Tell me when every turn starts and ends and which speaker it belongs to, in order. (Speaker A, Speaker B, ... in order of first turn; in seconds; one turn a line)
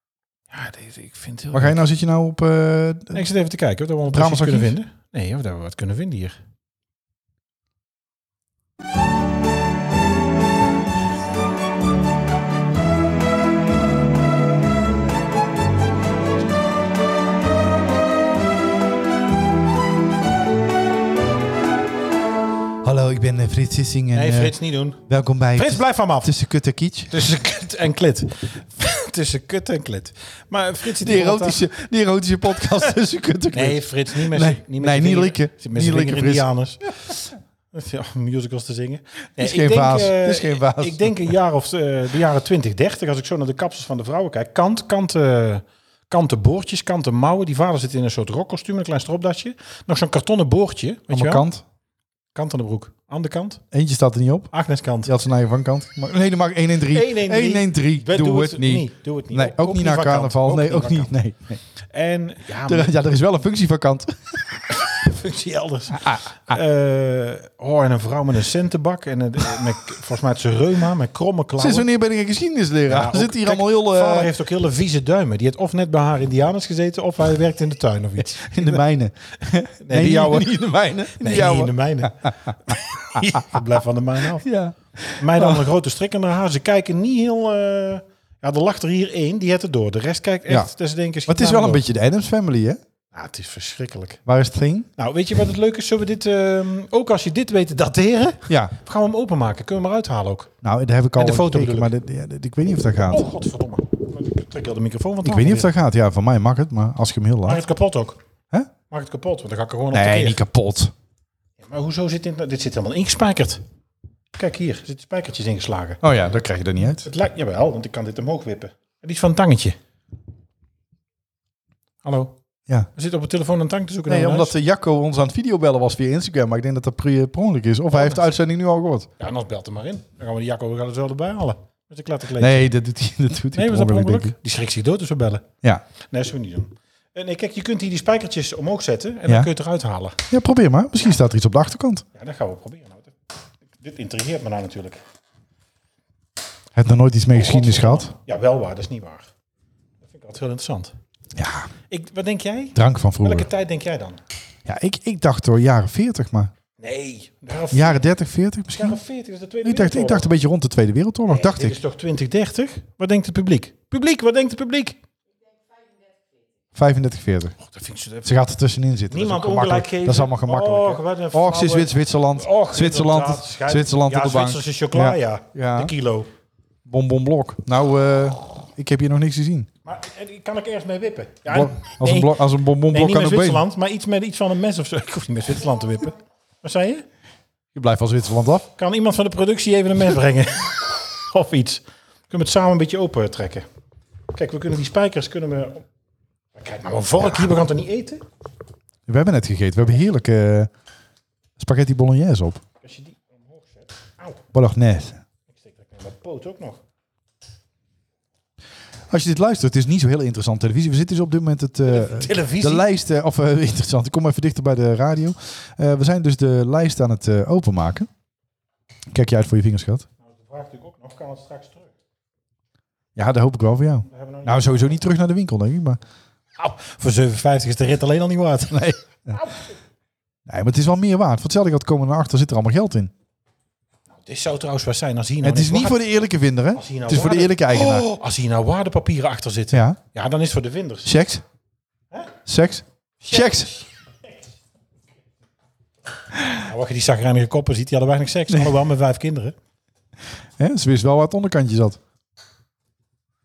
Speaker A: 0.5-1.8
Speaker B: 1.5-3.3
Speaker A: 3.1-6.4
Speaker B: 4.1-4.8
Speaker B: 22.8-27.1
Speaker A: 24.1-26.3
Speaker A: 27.1-31.6
Speaker B: 30.9-36.5
Speaker A: 33.5-51.5
Speaker B: 39.4-41.3
Speaker B: 51.1-51.6
Speaker A: 52.4-53.6
Speaker B: 53.7-54.5
Speaker A: 54.5-55.1
Speaker B: 55.0-61.6
Speaker A: 56.9-61.1
Speaker A: 61.9-63.0
Speaker B: 62.6-64.7
Speaker A: 64.8-71.9
Speaker B: 66.0-66.6
Speaker B: 71.6-74.3
Speaker A: 72.9-78.8
Speaker B: 78.4-83.6
Speaker A: 79.8-80.5
Speaker A: 81.2-84.5
Speaker B: 84.4-85.7
Speaker A: 85.2-91.8
Speaker B: 91.3-92.8
Speaker A: 93.1-94.2
Speaker B: 94.3-94.9
Speaker A: 95.0-100.5
Speaker B: 98.5-98.7
Speaker B: 100.6-103.3
Speaker A: 101.2-101.9
Speaker A: 103.1-105.7
Speaker B: 105.2-107.7
Speaker A: 107.5-108.2
Speaker A: 108.9-110.4
Speaker B: 109.9-110.9
Speaker A: 111.6-113.6
Speaker A: 114.3-116.0
Speaker B: 116.0-117.1
Speaker A: 117.0-119.8
Speaker A: 122.0-122.4
Speaker A: 122.9-124.5
Speaker B: 124.1-129.1
Speaker A: 127.9-128.3
Speaker A: 129.2-132.7
Speaker B: 132.4-134.3
Speaker A: 133.5-135.5
Speaker A: 136.0-140.2
Speaker B: 140.3-142.1
Speaker A: 142.2-143.1
Speaker A: 143.8-145.0
Speaker B: 146.7-148.1
Speaker A: 147.3-149.3
Speaker A: 150.0-150.9
Speaker B: 151.3-151.7
Speaker A: 151.9-154.2
Speaker B: 152.8-153.5
Speaker B: 154.7-156.5
Speaker A: 156.8-158.1
Speaker B: 157.7-159.0
Speaker A: 158.7-160.3
Speaker B: 159.6-161.8
Speaker A: 161.3-165.0
Speaker B: 166.7-167.6
Speaker A: 167.6-168.3
Speaker B: 168.2-175.9
Speaker A: 169.1-176.3
Speaker B: 176.9-179.7
Speaker A: 179.8-187.1
Speaker B: 181.5-183.7
Speaker B: 187.7-188.7
Speaker A: 188.8-193.7
Speaker A: 194.3-195.8
Speaker A: 196.6-198.2
Speaker B: 199.1-200.7
Speaker B: 201.6-202.6
Speaker A: 202.8-204.4
Speaker B: 204.5-205.2
Speaker A: 205.6-206.8
Speaker B: 209.1-218.1
Speaker A: 211.9-212.8
Speaker B: 219.1-220.1
Speaker A: 220.2-221.9
Speaker B: 223.2-226.0
Speaker A: 224.0-225.0
Speaker A: 226.6-229.7
Speaker B: 228.7-229.4
Speaker B: 230.5-233.1
Speaker A: 234.2-236.0
Speaker B: 235.4-238.1
Speaker A: 236.7-241.1
Speaker B: 239.7-240.0
Speaker B: 241.1-241.4
Speaker B: 242.5-243.7
Speaker A: 243.2-243.9
Speaker A: 246.6-249.6
Speaker B: 250.6-252.0